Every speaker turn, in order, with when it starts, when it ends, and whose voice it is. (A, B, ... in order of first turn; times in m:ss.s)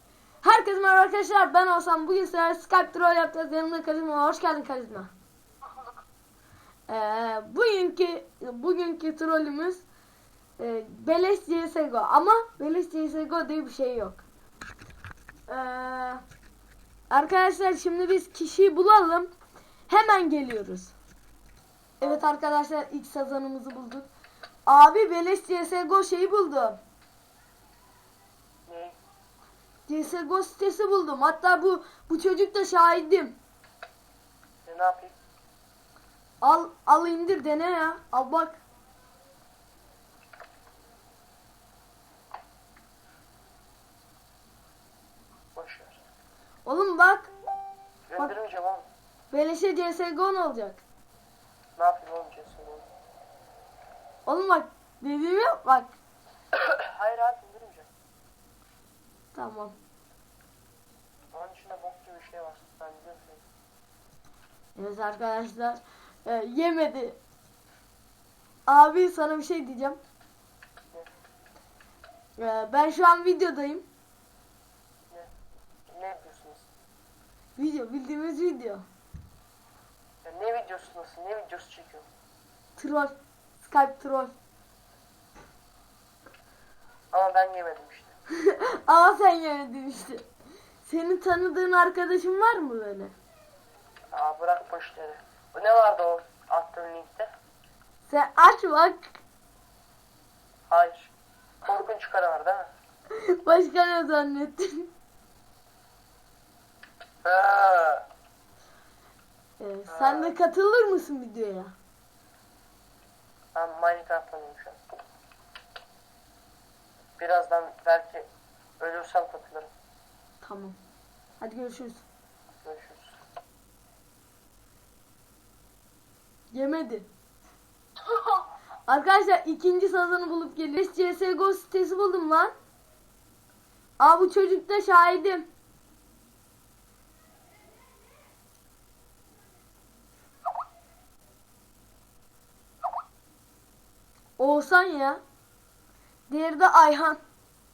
0:00.4-0:05.1 A
0:06.9-0:09.8 A
0:10.6-0:14.2 A
0:15.5-0:16.2 A
0:17.1-0:19.3 A
0:19.9-0:20.9 A
0:22.0-0:24.1 A
0:24.6-0:26.8 A
0:28.7-0:29.0 B
0:29.9-0:33.4 A
0:34.6-0:35.1 B
0:36.4-0:38.6 A
0:45.5-0:46.0 B
0:46.6-0:47.3 A
0:48.1-0:48.8 B
0:49.3-0:50.8 A
0:51.8-0:52.9 B
0:54.2-0:55.9 A
0:56.5-0:57.9 B
0:59.3-0:59.8 A
1:01.3-1:03.4 B
1:04.8-1:07.2 A
1:08.6-1:10.0 A
1:12.4-1:13.8 A
1:15.9-1:16.7 B
1:17.6-1:18.8 A
1:20.2-1:22.0 B
1:22.8-1:24.3 A
1:27.1-1:28.1 B
1:28.4-1:30.2 A
1:30.8-1:33.1 A
1:34.1-1:37.3 B
1:38.1-1:39.2 A
1:40.7-1:42.7 B
1:43.1-1:44.9 A
1:47.2-1:48.0 B
1:49.6-1:51.7 A
1:49.9-1:50.3 B
1:53.5-1:54.8 B
1:57.2-1:58.3 B
1:58.8-1:59.7 B
2:00.4-2:00.8 A
2:01.4-2:02.0 A
2:02.6-2:03.1 B
2:06.5-2:07.1 A
2:08.9-2:12.5 A
2:14.0-2:15.5 A
2:24.4-2:25.2 A
2:26.3-2:27.2 A